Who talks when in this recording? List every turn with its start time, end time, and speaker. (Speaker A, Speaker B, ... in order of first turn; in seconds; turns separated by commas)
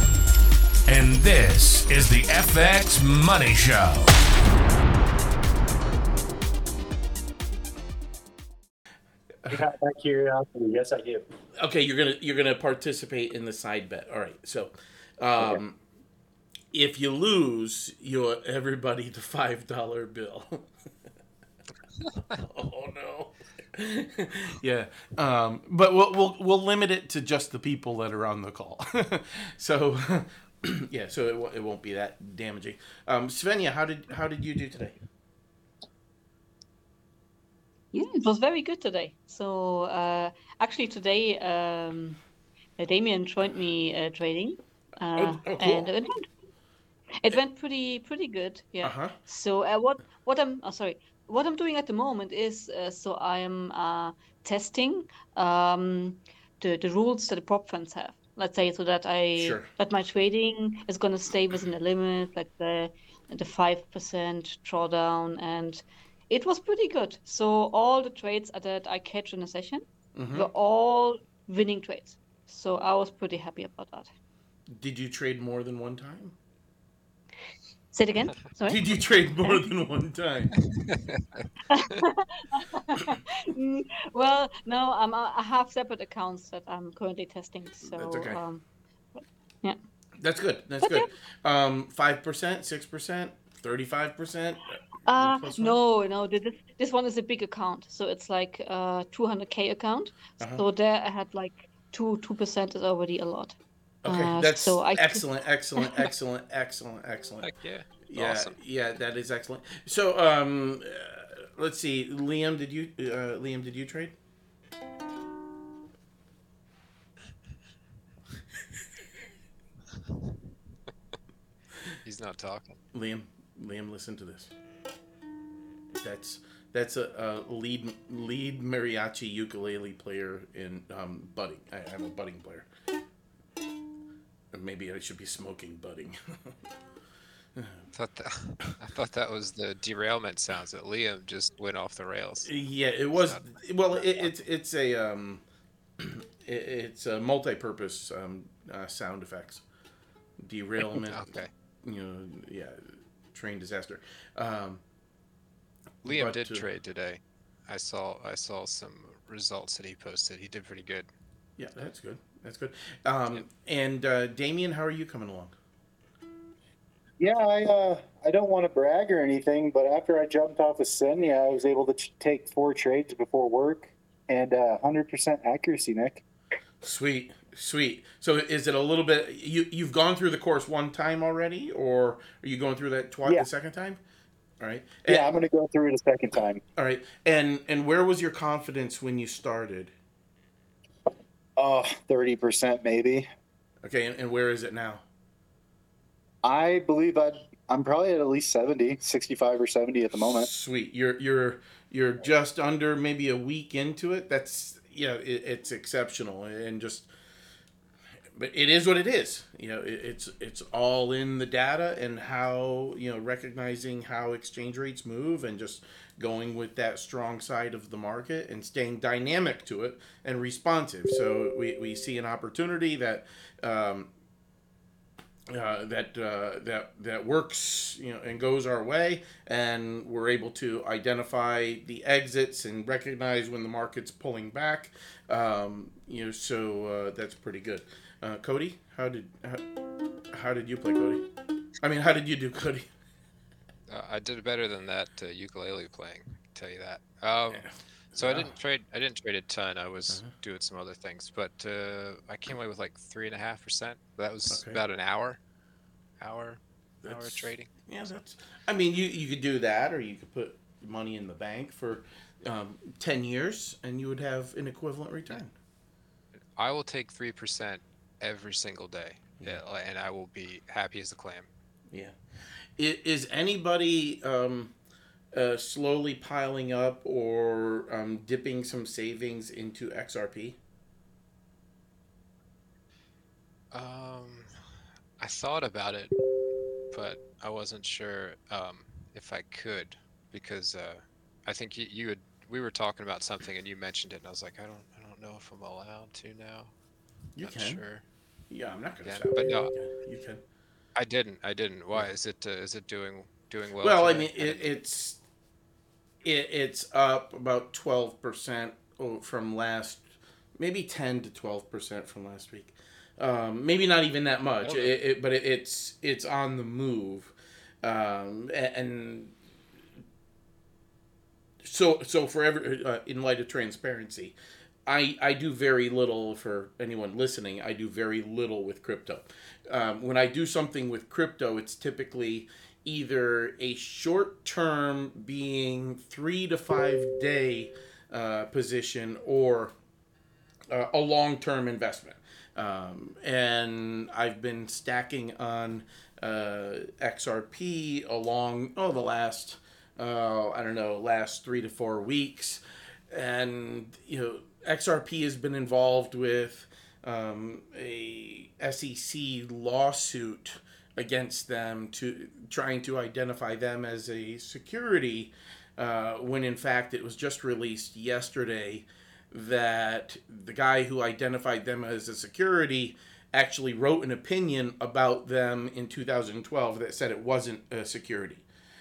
Speaker A: 0.9-4.1, Speaker B: 9.5-11.2, Speaker C: 11.6-15.8, Speaker C: 16.7-20.7, Speaker C: 22.3-34.9, Speaker D: 37.9-42.2, Speaker D: 42.8-46.3, Speaker C: 45.1-45.9, Speaker D: 47.2-74.1, Speaker C: 48.8-49.1, Speaker C: 59.4-59.7, Speaker C: 70.2-70.5, Speaker C: 74.7-76.4, Speaker D: 77.9-78.9, Speaker C: 78.7-80.5, Speaker E: 80.7-81.5, Speaker D: 81.7-88.6, Speaker C: 87.8-88.4, Speaker C: 90.2-95.8, Speaker D: 90.8-91.1, Speaker D: 95.0-103.5, Speaker C: 104.0-107.5, Speaker D: 104.1-105.2, Speaker E: 107.4-108.5, Speaker C: 108.0-114.2, Speaker E: 122.0-122.8, Speaker C: 122.9-124.5, Speaker C: 125.9-132.7, Speaker C: 134.5-136.6, Speaker C: 137.6-137.9, Speaker E: 137.9-142.5, Speaker C: 142.4-145.4, Speaker E: 143.1-143.5, Speaker C: 146.0-149.6, Speaker C: 150.4-151.3, Speaker E: 150.9-151.5, Speaker C: 151.8-154.8, Speaker C: 156.0-156.7, Speaker E: 156.0-161.1, Speaker C: 161.6-165.6, Speaker B: 167.2-176.2, Speaker C: 176.8-184.0, Speaker C: 184.6-185.3, Speaker B: 185.1-186.6, Speaker C: 186.8-189.9, Speaker B: 191.6-193.3, Speaker C: 193.8-195.1, Speaker B: 196.4-200.5, Speaker C: 200.3-207.1, Speaker C: 208.4-224.1, Speaker C: 225.5-239.7, Speaker C: 240.3-241.2, Speaker C: 241.8-242.9, Speaker E: 243.9-255.4, Speaker C: 247.5-248.6, Speaker C: 254.5-254.8, Speaker E: 256.2-257.7, Speaker C: 257.0-265.5, Speaker E: 266.6-271.5, Speaker C: 272.8-274.8, Speaker C: 275.3-280.6, Speaker E: 283.7-284.7, Speaker E: 285.2-286.2, Speaker E: 286.9-296.7, Speaker C: 297.4-297.8, Speaker E: 297.4-298.0, Speaker C: 298.5-300.4, Speaker E: 299.1-299.7, Speaker E: 301.0-304.7, Speaker C: 303.8-305.2, Speaker C: 306.2-310.1, Speaker C: 310.6-319.4, Speaker E: 314.6-314.9, Speaker C: 321.6-339.7, Speaker C: 340.7-378.4